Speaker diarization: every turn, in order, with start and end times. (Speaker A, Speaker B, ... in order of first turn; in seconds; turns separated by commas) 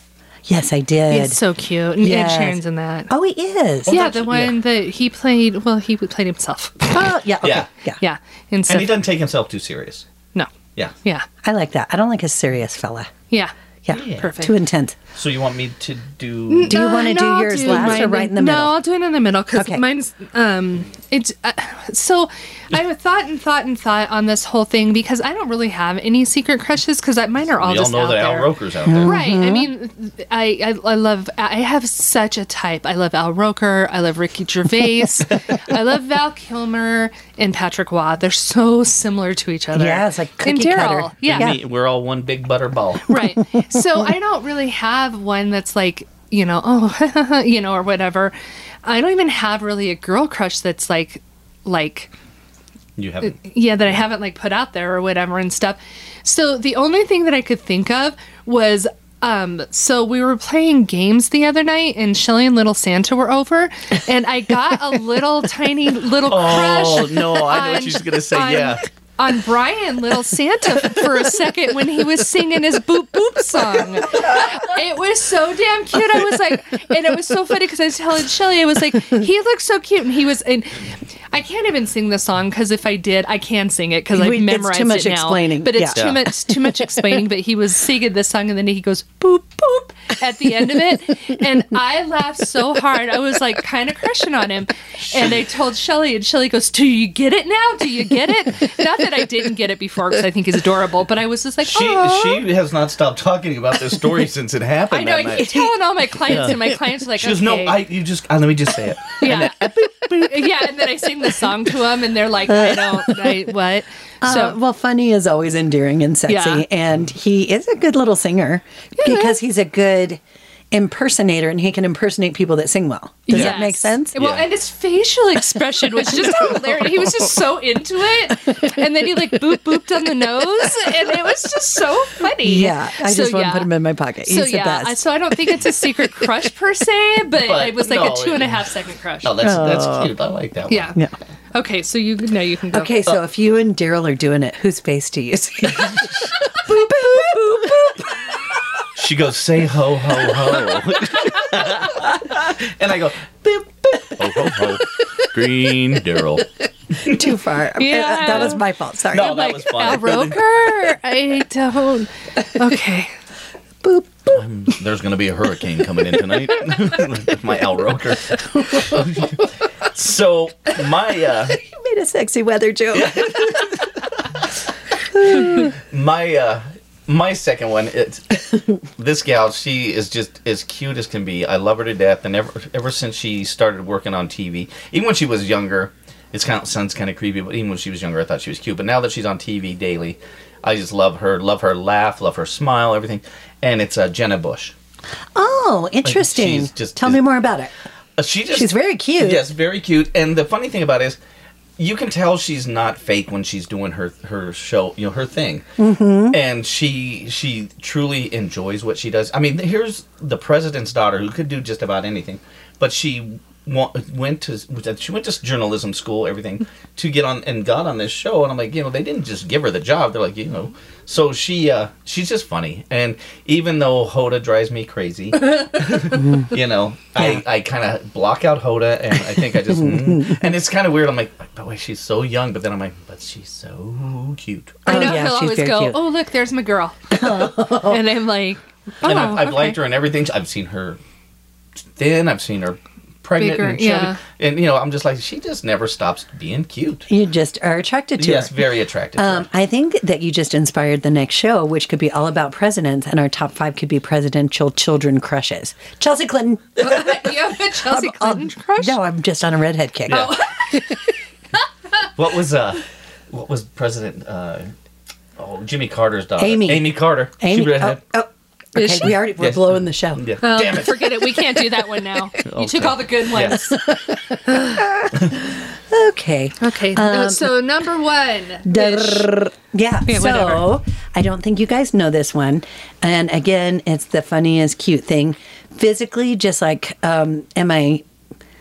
Speaker A: 0.5-1.4, Speaker B: 1.1-3.1, Speaker A: 2.0-4.0, Speaker C: 3.9-4.6, Speaker B: 3.9-6.9, Speaker A: 6.9-8.0, Speaker C: 7.4-7.7, Speaker B: 8.0-8.9, Speaker C: 8.7-10.1, Speaker A: 11.4-13.1, Speaker A: 13.9-15.0, Speaker C: 13.9-14.3, Speaker B: 14.1-14.6, Speaker C: 15.1-17.0, Speaker B: 16.5-28.5, Speaker A: 16.7-18.7, Speaker C: 17.6-18.1, Speaker A: 19.5-19.8, Speaker C: 27.6-29.2, Speaker A: 28.9-29.7, Speaker B: 29.0-41.5, Speaker A: 39.7-41.6, Speaker C: 41.3-43.2, Speaker B: 43.1-52.1, Speaker A: 43.4-43.8, Speaker C: 53.0-53.4, Speaker B: 53.2-102.4, Speaker C: 66.3-68.8, Speaker A: 84.1-86.7, Speaker C: 86.0-86.3, Speaker C: 95.0-95.4, Speaker C: 101.6-110.7, Speaker B: 104.9-107.8, Speaker B: 109.2-109.6, Speaker B: 110.2-114.6, Speaker A: 112.5-113.4, Speaker A: 114.2-120.2, Speaker B: 116.3-116.6, Speaker B: 119.0-119.3, Speaker A: 120.7-124.2, Speaker B: 123.3-133.7, Speaker C: 123.3-123.6, Speaker C: 124.1-124.5, Speaker A: 126.0-127.1, Speaker A: 128.5-128.7, Speaker A: 132.4-135.6, Speaker B: 134.2-139.3, Speaker C: 137.4-138.6, Speaker C: 139.2-141.0, Speaker A: 139.4-140.1, Speaker B: 140.7-141.0, Speaker B: 141.5-143.0, Speaker A: 142.7-148.1, Speaker C: 148.9-156.5, Speaker C: 157.0-157.3, Speaker A: 157.1-159.4, Speaker B: 157.8-163.1, Speaker C: 159.1-160.5, Speaker A: 163.8-164.4, Speaker C: 164.3-171.6, Speaker A: 171.6-173.7, Speaker C: 172.9-173.9, Speaker A: 175.1-175.7, Speaker C: 175.3-194.8, Speaker A: 195.3-197.7, Speaker C: 196.0-197.3, Speaker C: 198.2-201.2, Speaker A: 198.5-199.4, Speaker C: 201.8-205.6, Speaker A: 205.8-206.4, Speaker C: 206.3-234.9, Speaker A: 226.1-226.5, Speaker A: 227.2-227.4, Speaker A: 229.5-230.4, Speaker A: 234.9-236.0, Speaker B: 234.9-239.8, Speaker A: 237.1-238.0, Speaker C: 239.0-241.0, Speaker C: 242.0-247.1, Speaker B: 243.4-244.2, Speaker A: 247.1-248.6, Speaker C: 248.2-249.5, Speaker A: 249.2-260.8, Speaker B: 256.8-259.0, Speaker C: 260.1-260.4, Speaker B: 260.1-261.0, Speaker C: 262.2-264.7, Speaker C: 265.4-268.0, Speaker A: 266.4-270.2, Speaker B: 268.8-269.1, Speaker C: 269.3-271.4, Speaker B: 270.4-273.8, Speaker C: 272.4-273.6, Speaker A: 273.5-277.5, Speaker B: 274.4-274.9, Speaker B: 276.6-279.3, Speaker A: 278.7-288.1, Speaker B: 280.1-280.7